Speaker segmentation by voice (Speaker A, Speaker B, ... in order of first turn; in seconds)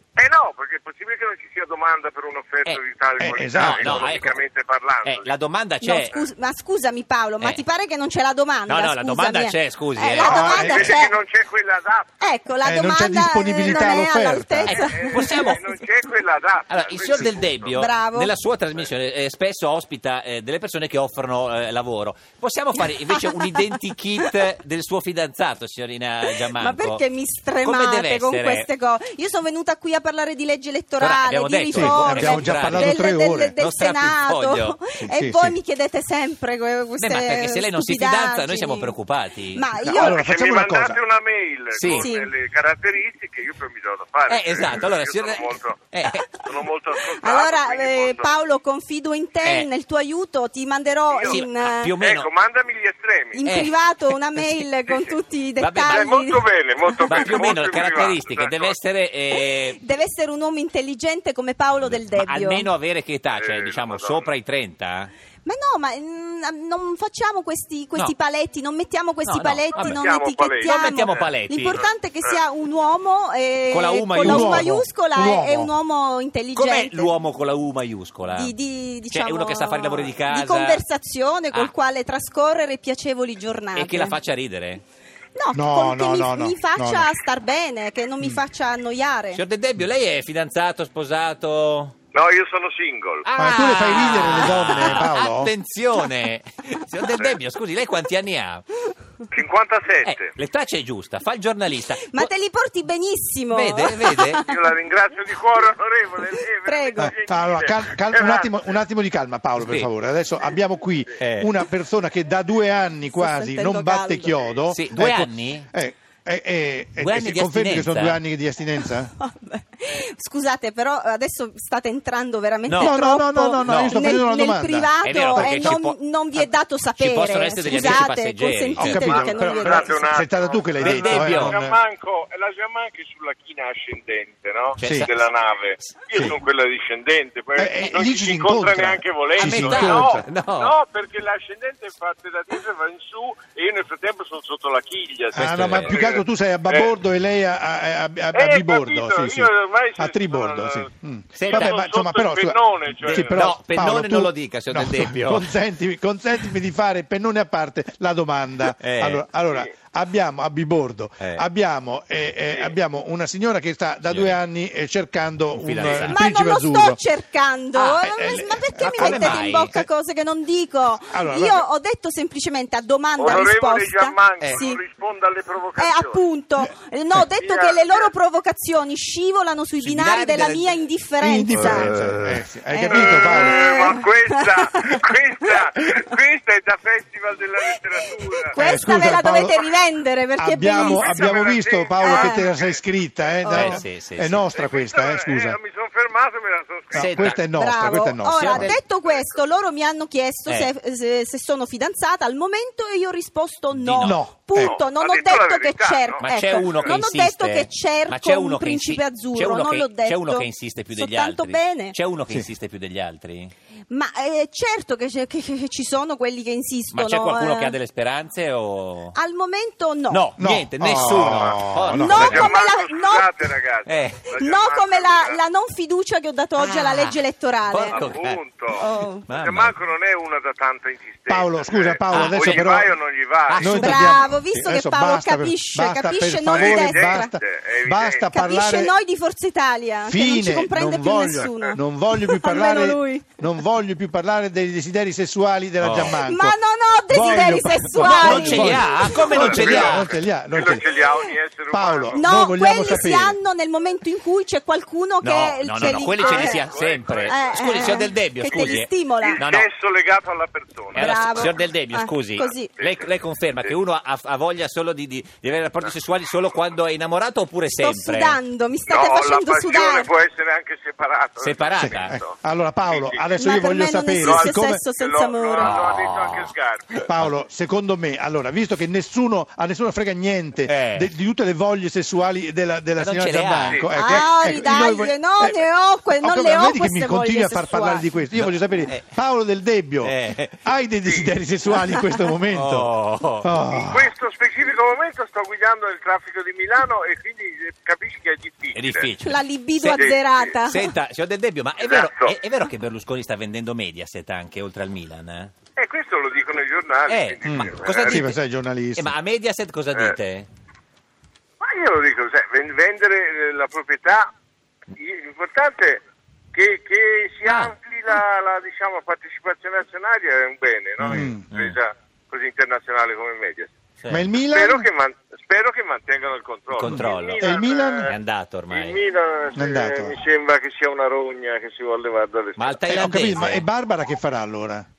Speaker A: 0.2-5.3, 6.0-6.3, 10.2-12.1, 12.7-18.0, 26.9-30.6, 31.8-33.4, 35.0-35.5, 39.8-45.8, 46.3-48.3, 51.1-53.7, 54.9-55.2, 55.8-58.7, 63.4-64.3, 69.8-71.6, 75.2-75.7, 92.1-93.2, 99.3-100.3, 104.3-108.7, 127.7-146.9, 148.3-150.9, 151.4-153.4, 162.5-162.7, 166.0-166.7, 173.2-176.2, 177.3-178.1, 181.4-181.9, 182.9-189.7, 190.7-193.8, 194.5-197.6, 198.6-199.4, 204.1-207.0, 221.0-221.6, 222.1-225.4, 227.9-234.3, 236.4-238.9, 240.7-241.8, 242.5-243.2, 246.1-246.5, 247.2-253.2, 255.7-258.0, 258.8-261.5, 262.8-263.1, 268.9-272.3, 272.9-277.0, 283.7-285.5, 286.7-287.8, 291.0-291.3, 293.7-299.1, 299.9-300.5, 301.8-302.4, 305.8-308.3, 311.6-314.3, 314.9-316.0, 316.5-323.7, 324.5-328.1, 328.7-332.8
Speaker B: 3.2-4.2, 10.2-10.9, 12.6-14.9, 31.7-33.5, 35.0-35.5, 39.8-41.0, 74.2-75.7, 85.5-87.1, 93.4-95.5, 107.0-119.1, 122.7-125.7, 128.8-131.8, 134.8-135.1, 137.6-140.2, 145.3-167.0, 168.0-169.8, 171.0-171.6, 181.2-183.7, 188.6-189.6, 190.4-195.6, 196.9-198.7, 204.0-204.8, 220.4-222.5, 231.3-232.9, 233.6-238.9, 240.1-246.5, 247.1-251.1, 251.7-253.3, 271.8-274.8, 277.0-285.6, 286.2-294.1, 307.4-309.1, 321.0-321.4, 324.1-324.9, 326.8-328.1, 329.5-330.1, 332.9-334.8
Speaker C: 3.5-4.4, 5.0-6.1, 8.7-10.7, 14.7-15.6, 16.7-27.0, 27.6-28.7, 31.0-33.0, 33.6-34.8, 37.0-39.6, 41.8-42.1, 44.3-46.5, 51.3-52.3, 53.4-53.7, 54.4-54.6, 55.6-56.2, 57.1-59.8, 61.9-65.1, 69.2-70.0, 70.6-71.9, 73.7-74.8, 76.5-78.5, 79.1-80.8, 83.7-84.8, 89.3-91.9, 93.2-98.7, 100.0-102.3, 103.5-104.4, 109.6-109.9, 111.2-111.5, 114.7-115.7, 117.0-118.2, 122.7-122.9, 123.6-123.9, 125.0-129.2, 130.8-131.6, 134.8-135.2, 139.4-140.7, 145.3-146.0, 151.3-151.8, 153.0-155.5, 158.8-159.2, 161.2-161.4, 164.1-164.3, 165.5-166.2, 167.7-168.1, 168.8-169.8, 179.8-180.8, 181.7-182.4, 193.5-194.4, 196.9-197.4, 198.4-198.8, 203.7-204.2, 206.2-213.5, 216.9-219.2, 220.1-222.6, 223.8-224.3, 226.6-229.7, 232.1-232.9, 233.5-234.2, 245.8-246.2, 247.9-250.1, 255.2-259.7, 260.9-268.4, 271.4-272.2, 275.6-277.3, 280.6-281.1, 282.9-284.2, 288.4-289.0, 290.0-290.6, 292.5-293.5, 298.7-305.5, 307.1-308.4, 308.9-310.5, 317.4-317.7, 321.0-321.8, 326.7-327.4, 328.1-329.0, 332.6-333.6
Speaker D: 5.8-11.1, 12.2-15.4, 17.7-18.3, 26.6-32.4, 32.9-38.9, 39.5-40.1, 41.9-42.3, 47.0-52.0, 53.3-57.3, 59.3-62.7, 65.4-77.2, 78.3-84.2, 85.3-89.4, 102.1-104.7, 106.5-107.1, 113.2-114.2, 119.2-130.1, 166.3-174.8, 175.8-181.8, 182.7-185.7, 187.6-191.3, 192.0-192.4, 193.4-193.7, 197.6-211.9, 213.9-217.7, 219.1-220.2, 222.0-223.4, 224.3-228.1, 228.7-229.3, 233.7-237.3, 238.2-241.8, 242.3-243.1, 246.3-248.8, 252.2-256.7, 257.3-259.4, 261.0-262.8, 267.7-270.1, 273.4-275.7, 284.0-288.0, 299.2-300.9